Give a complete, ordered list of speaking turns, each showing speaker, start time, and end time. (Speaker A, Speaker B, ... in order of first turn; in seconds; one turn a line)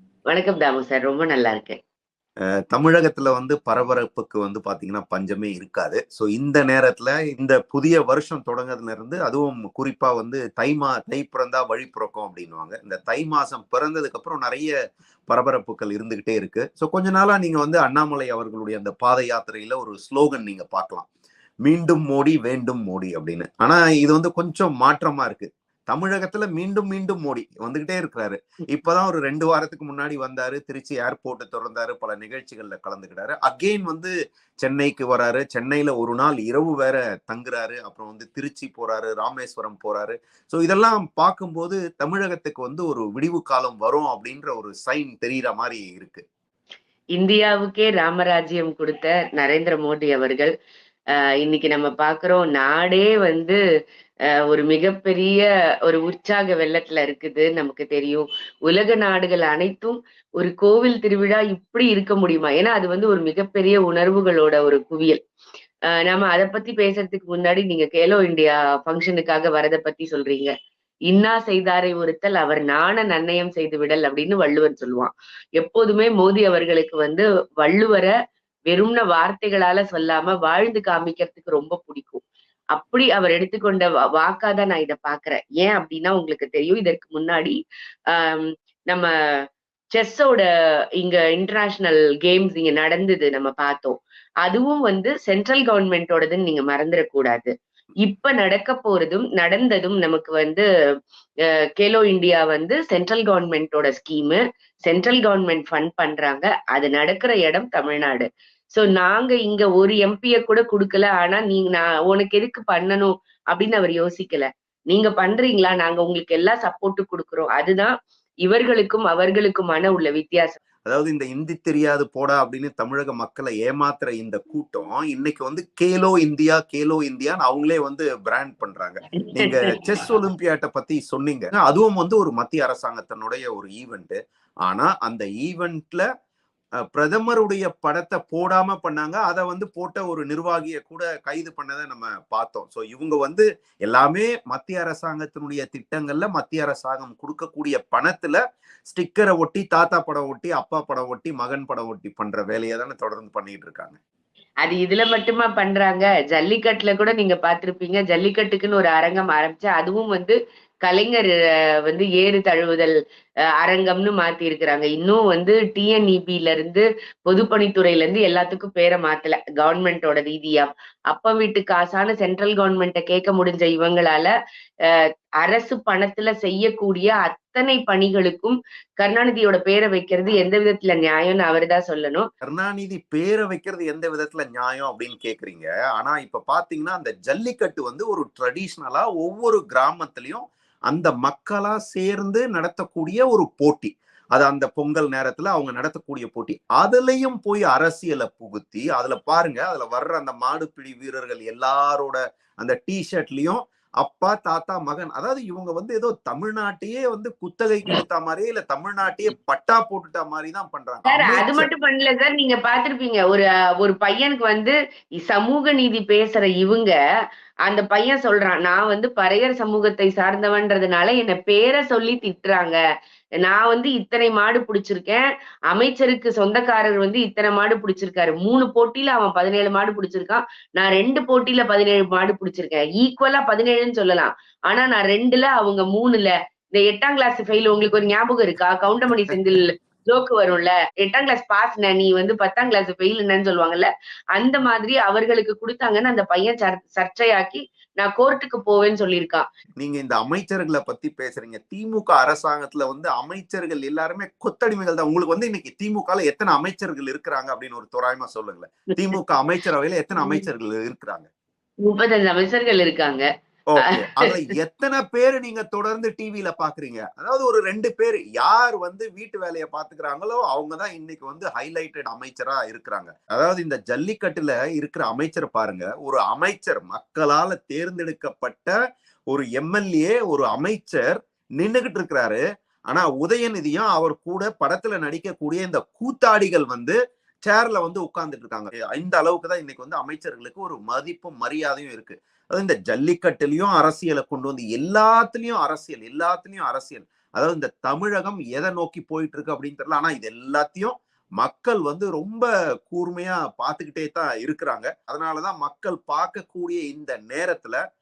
Speaker A: 0.3-1.8
Speaker B: 2.7-14.7
Speaker B: 15.3-21.1
Speaker B: 21.6-46.2
Speaker A: 47.1-50.5
Speaker A: 51.4-53.6
Speaker A: 54.5-65.2
Speaker A: 66.1-70.5
Speaker A: 71.1-78.1
Speaker A: 78.7-82.2
Speaker A: 82.7-87.6
Speaker A: 88.1-89.1
Speaker A: 89.9-90.5
Speaker A: 91.0-97.5
Speaker A: 98.0-100.7
Speaker A: 101.8-117.9
Speaker A: 118.4-120.6
Speaker B: 120.8-136.1
Speaker A: 129.4-129.8
Speaker B: 136.9-154.0
Speaker A: 154.6-161.3
Speaker A: 161.9-162.9
Speaker A: 163.6-174.3
Speaker A: 174.9-182.3
Speaker B: 182.4-211.7
Speaker A: 211.1-216.9
Speaker A: 217.7-222.8
Speaker A: 223.4-249.4
Speaker B: 249.8-261.3
Speaker A: 260.2-260.4
Speaker A: 261.9-263.2
Speaker B: 263.7-278.8
Speaker B: 279.3-307.8